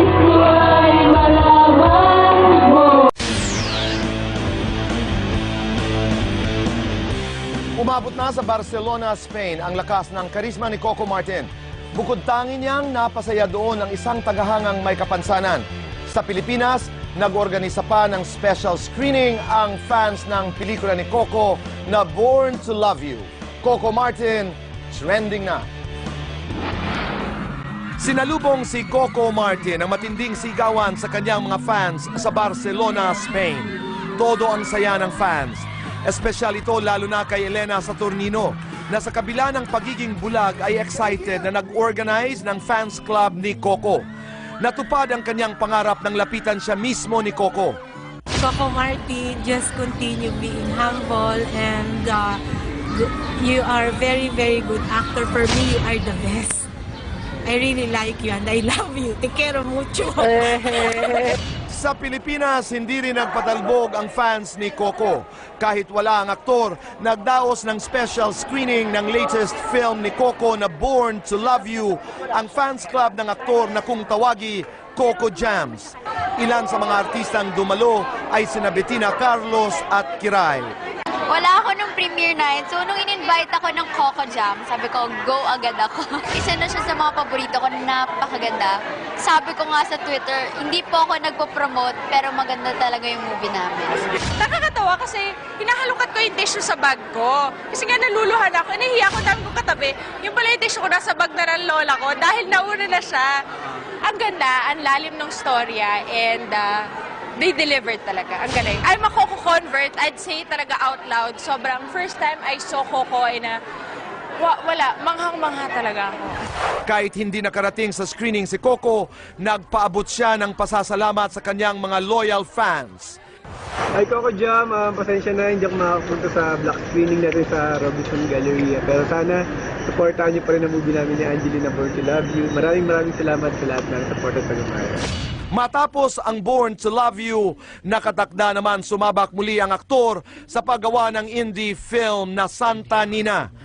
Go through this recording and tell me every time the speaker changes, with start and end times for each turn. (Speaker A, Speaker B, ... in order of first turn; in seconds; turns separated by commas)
Speaker A: 1.0-1.4, Speaker B: 7.8-25.7, Speaker B: 28.0-44.0, Speaker B: 44.6-47.8, Speaker A: 48.4-56.7, Speaker A: 57.4-61.3, Speaker B: 61.7-80.7, Speaker C: 81.3-94.0, Speaker D: 94.4-103.3, Speaker D: 104.0-106.7, Speaker D: 107.4-113.6, Speaker D: 114.4-116.4, Speaker B: 116.8-123.2, Speaker E: 123.9-135.0, Speaker B: 135.5-143.5